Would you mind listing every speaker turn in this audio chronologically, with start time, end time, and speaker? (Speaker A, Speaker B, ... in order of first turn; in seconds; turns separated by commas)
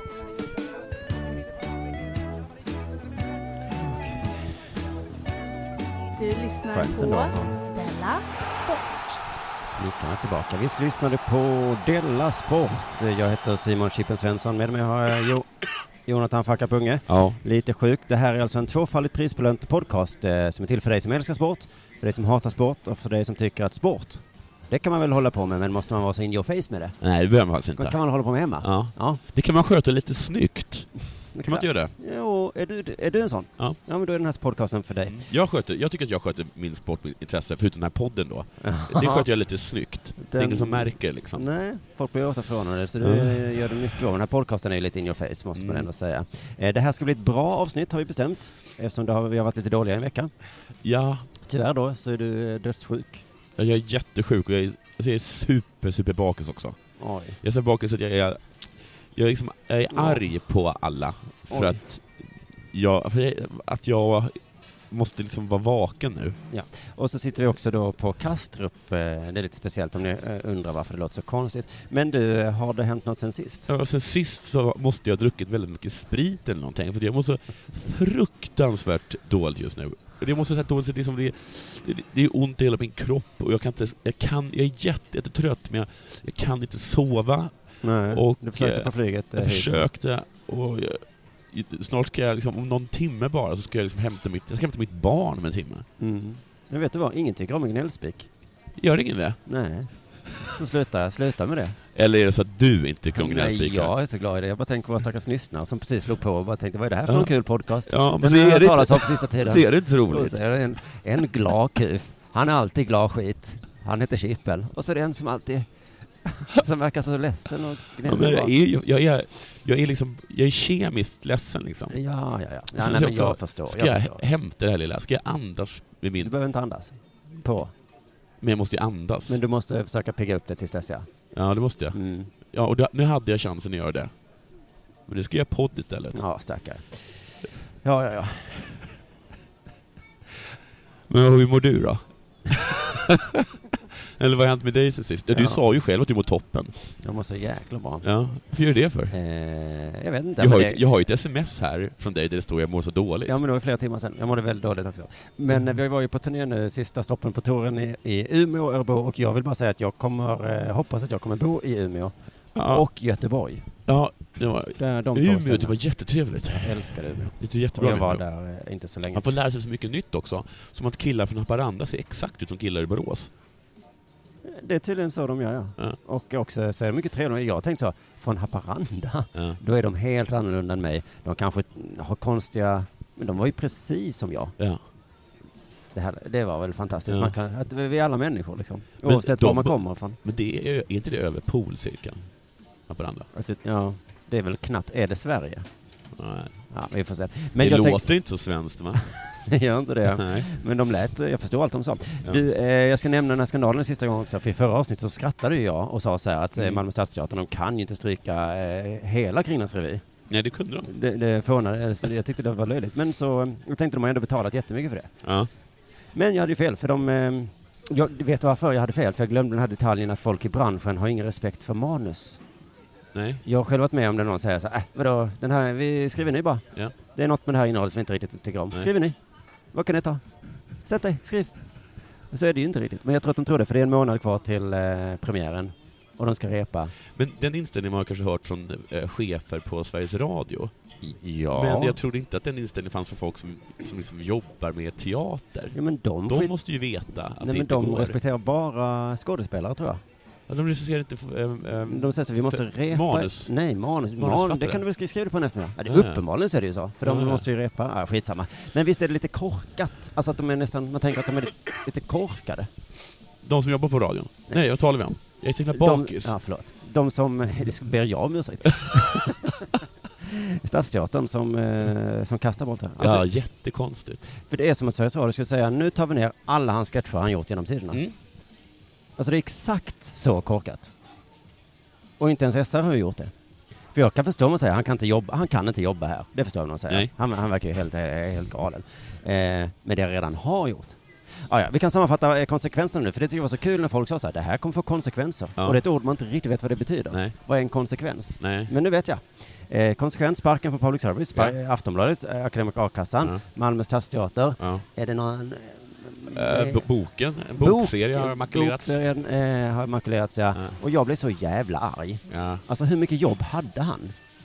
Speaker A: 3.7-4.7, Speaker B: 6.2-9.2, Speaker A: 6.7-7.6, Speaker A: 9.8-15.5, Speaker A: 16.1-27.0, Speaker C: 17.1-17.4, Speaker C: 27.0-28.0, Speaker A: 27.8-29.2, Speaker C: 28.6-31.9, Speaker A: 31.3-35.3, Speaker C: 35.0-41.5, Speaker A: 38.6-39.3, Speaker A: 40.2-50.3, Speaker C: 43.0-43.8, Speaker C: 45.5-45.9, Speaker C: 50.8-51.3, Speaker A: 51.5-53.2, Speaker C: 53.6-56.8, Speaker A: 57.0-57.4, Speaker C: 57.4-58.6, Speaker C: 59.1-64.4, Speaker A: 61.5-61.8, Speaker C: 64.9-66.4, Speaker A: 66.5-73.7, Speaker C: 73.7-87.5, Speaker A: 87.8-89.9, Speaker C: 88.1-95.9, Speaker A: 96.0-98.3, Speaker C: 98.8-99.4, Speaker A: 99.5-101.8, Speaker C: 101.9-103.9, Speaker A: 103.1-115.7, Speaker C: 107.9-110.4, Speaker A: 116.2-118.5, Speaker C: 118.0-122.0, Speaker A: 121.9-124.2, Speaker C: 122.7-126.3, Speaker A: 126.2-127.7, Speaker C: 128.4-129.4, Speaker A: 129.3-131.1, Speaker C: 131.3-134.1, Speaker A: 131.9-132.3, Speaker C: 135.1-136.2, Speaker A: 136.1-137.3, Speaker A: 137.8-138.9, Speaker C: 141.1-146.9, Speaker A: 145.3-145.6, Speaker A: 147.0-148.1, Speaker C: 148.0-149.1, Speaker A: 149.1-150.8, Speaker C: 150.4-153.4, Speaker A: 153.3-163.8, Speaker C: 162.6-162.8, Speaker C: 163.9-168.2, Speaker A: 164.8-165.8, Speaker A: 166.5-169.3, Speaker C: 169.1-173.3, Speaker A: 174.4-184.6, Speaker A: 185.9-190.2, Speaker C: 187.1-187.3, Speaker C: 189.0-192.3, Speaker C: 192.9-193.3, Speaker A: 193.3-195.7, Speaker C: 196.2-196.6, Speaker A: 196.7-198.0, Speaker C: 197.6-199.1, Speaker A: 199.3-210.0, Speaker C: 200.1-200.5, Speaker C: 206.6-206.8, Speaker C: 210.3-210.9, Speaker A: 210.8-215.1, Speaker C: 215.2-215.5, Speaker A: 216.2-222.4, Speaker C: 223.1-223.4, Speaker A: 223.4-229.2, Speaker A: 229.7-230.2, Speaker A: 230.8-231.5, Speaker A: 232.3-236.9, Speaker C: 237.1-240.7, Speaker A: 241.0-242.0, Speaker C: 241.5-245.8, Speaker A: 245.7-246.6, Speaker C: 246.3-248.2, Speaker A: 247.4-250.0, Speaker C: 250.5-253.5, Speaker A: 251.9-262.7, Speaker C: 254.2-254.8, Speaker C: 255.9-256.2, Speaker C: 257.0-257.5, Speaker C: 263.4-266.4, Speaker A: 265.7-273.2, Speaker C: 273.0-274.2, Speaker A: 274.4-278.0, Speaker C: 277.9-278.2, Speaker A: 279.2-280.9, Speaker A: 282.2-283.3, Speaker A: 283.9-306.9, Speaker C: 298.4-298.7, Speaker C: 304.6-304.8, Speaker C: 306.3-309.0, Speaker A: 307.6-314.1, Speaker C: 312.3-312.6